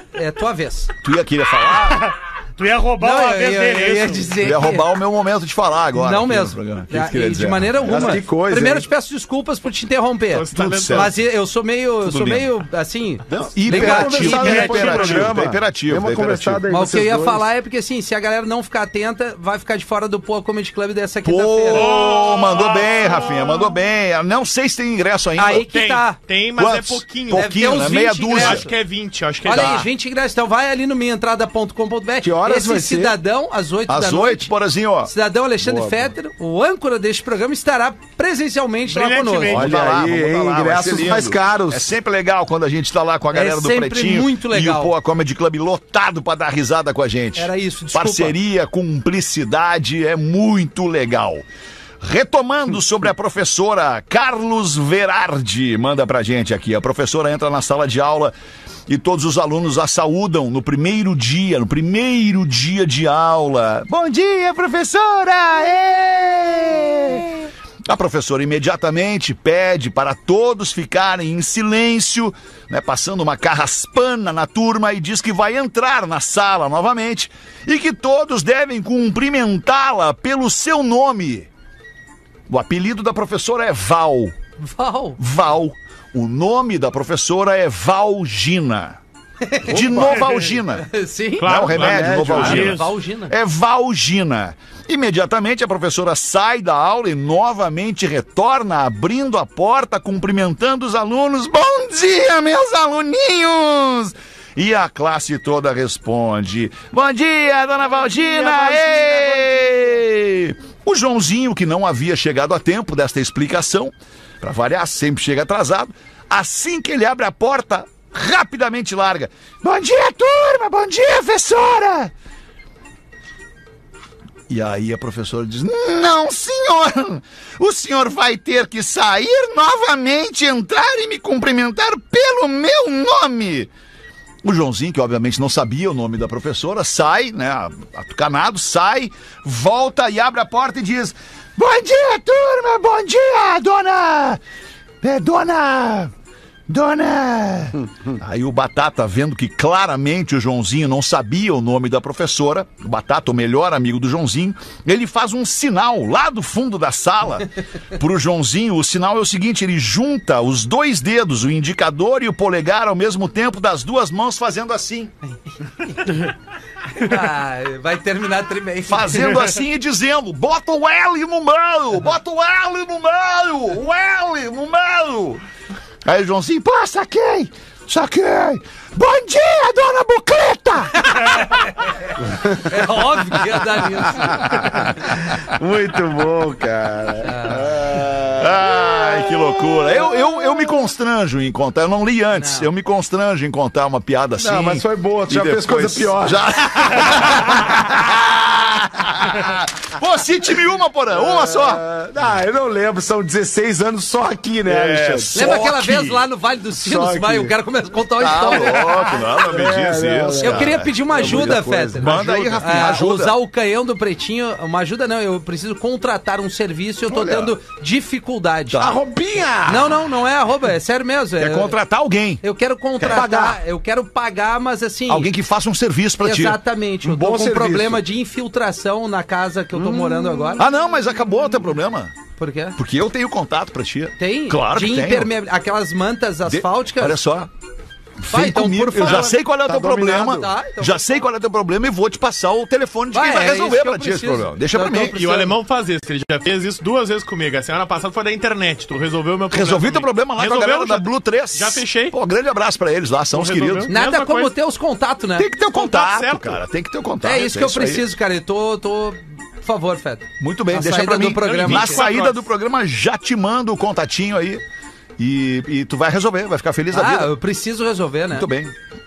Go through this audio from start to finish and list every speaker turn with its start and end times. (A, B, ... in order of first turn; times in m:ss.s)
0:00.1-0:00.9 A
0:01.0-0:02.1 B
0:01.8-0:04.4 C
0:03.0-0:04.9 A
0:04.4-0:08.1 B
0:06.0-0:14.8 A
0:07.8-0:08.9 D
0:10.3-0:11.1 E
0:10.5-0:11.1 B
0:12.0-0:12.5 B
0:13.3-0:17.5 D
0:13.5-0:16.6 B
0:14.1-0:15.3 C
0:16.7-0:21.9 A
0:21.2-0:25.7 B
0:21.7-0:23.7 E
0:25.4-0:26.2 A
0:25.7-0:27.7 E
0:26.6-0:28.6 B
0:27.3-0:28.7 A
0:28.3-0:29.9 E
0:29.4-0:34.5 A
0:29.5-0:29.8 B
0:32.2-0:33.2 D
0:33.9-0:35.1 B
0:35.0-0:39.7 A
0:35.6-0:36.1 D
0:38.9-0:39.7 C
0:39.4-0:41.9 D
0:39.5-0:51.4 B
0:43.3-0:44.9 A
0:47.3-0:48.3 A
0:52.0-0:58.3 B
0:58.9-1:21.5 B
1:22.5-1:24.3 B
1:24.6-1:25.2 A
1:25.2-1:29.0 B
1:29.4-1:30.1 A
1:29.6-1:30.9 B
1:29.7-1:30.5 D
1:30.8-1:31.5 A
1:31.4-1:32.8 E
1:31.4-2:02.1 B
1:31.7-1:32.7 D
1:32.4-1:33.3 A
1:48.1-1:49.5 C
2:04.5-2:13.7 B
2:14.4-2:24.4 B
2:25.0-2:26.1 B
2:26.7-2:45.1 B
2:46.9-2:49.3 A
2:48.9-2:55.4 B
2:56.0-3:01.6 B
3:01.1-3:01.7 A
3:02.6-3:04.8 A
3:04.2-3:10.7 D
3:07.2-3:07.7 A
3:08.4-3:21.8 B
3:12.3-3:12.7 A
3:14.4-3:17.5 D
3:21.1-3:25.7 D
3:24.7-3:26.2 B
3:25.3-3:29.0 A
3:26.8-3:27.5 D
3:28.2-3:33.4 B
3:28.8-3:32.8 D
3:30.4-3:39.0 A
3:37.1-3:37.5 B
3:38.7-3:39.0 B
3:38.7-3:40.0 D
3:39.6-3:41.7 A
3:41.4-3:42.4 B
3:42.4-3:45.3 A
3:43.0-3:43.6 D
3:43.0-3:43.3 B
3:45.1-3:46.6 B
3:46.2-3:50.6 A
3:47.0-3:48.0 D
3:49.7-3:50.6 D
3:50.6-3:52.1 B
3:52.4-3:52.8 A
3:52.8-3:55.3 B
3:54.2-3:57.2 A
3:56.5-3:57.5 B
3:58.2-4:05.3 B
3:58.3-3:59.4 A
3:58.9-4:00.5 D
4:00.2-4:01.0 A
4:03.1-4:05.5 A
4:05.1-4:12.2 E
4:09.5-4:13.9 B
4:13.3-4:14.5 E
4:13.9-4:15.5 A
4:15.4-4:18.0 B
4:15.7-4:16.6 E
4:17.2-4:22.1 A
4:20.4-4:24.6 B
4:21.4-4:22.4 E
4:25.2-4:27.3 B
4:26.9-4:28.5 A
4:28.3-4:28.7 B